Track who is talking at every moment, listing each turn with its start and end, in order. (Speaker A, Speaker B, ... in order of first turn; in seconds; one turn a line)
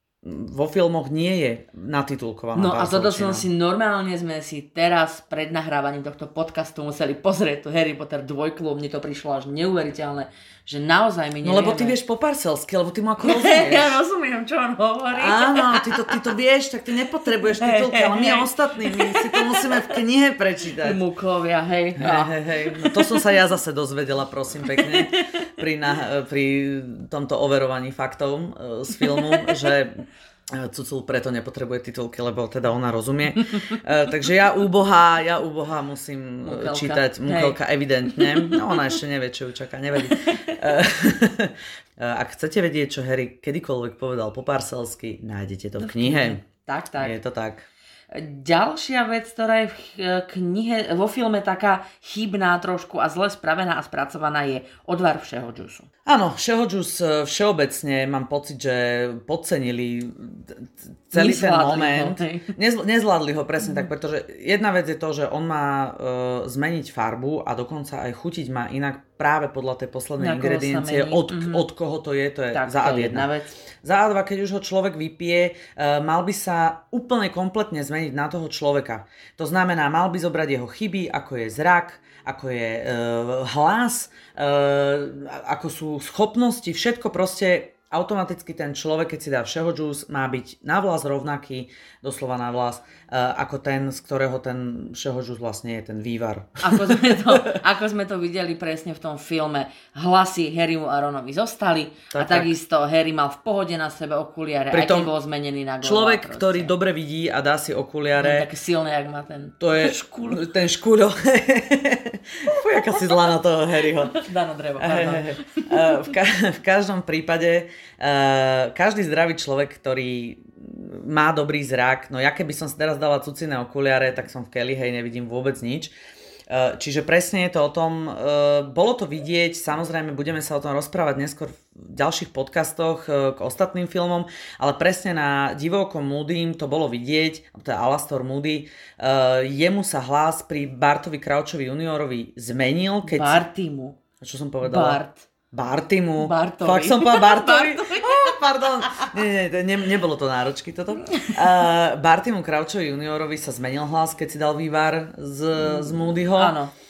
Speaker A: 0.2-3.5
Speaker B: 2.5-12.0
Speaker A: 11.4-14.0
Speaker B: 13.2-16.2
Speaker A: 15.2-21.0
Speaker B: 17.4-20.0
Speaker B: 20.8-23.2
Speaker A: 22.0-46.4
Speaker B: 24.7-25.2
Speaker B: 29.0-29.5
Speaker B: 36.4-37.6
Speaker B: 38.1-38.6
Speaker B: 40.2-40.6
Speaker B: 45.8-47.1
Speaker A: 47.0-47.7
Speaker B: 48.1-55.9
Speaker A: 56.1-73.3
Speaker B: 61.1-62.5
Speaker B: 70.2-71.7
Speaker B: 72.5-73.5
Speaker A: 73.8-97.6
Speaker B: 96.6-106.7
Speaker A: 102.1-102.5
Speaker A: 104.7-105.1
Speaker A: 105.8-108.5
Speaker B: 108.2-110.5
Speaker A: 109.6-114.2
Speaker B: 114.1-115.9
Speaker A: 114.8-125.9
Speaker A: 126.5-143.4
Speaker B: 143.1-144.0
Speaker A: 144.2-145.0
Speaker B: 144.6-145.3
Speaker A: 145.5-156.6
Speaker B: 146.2-149.1
Speaker B: 155.6-156.7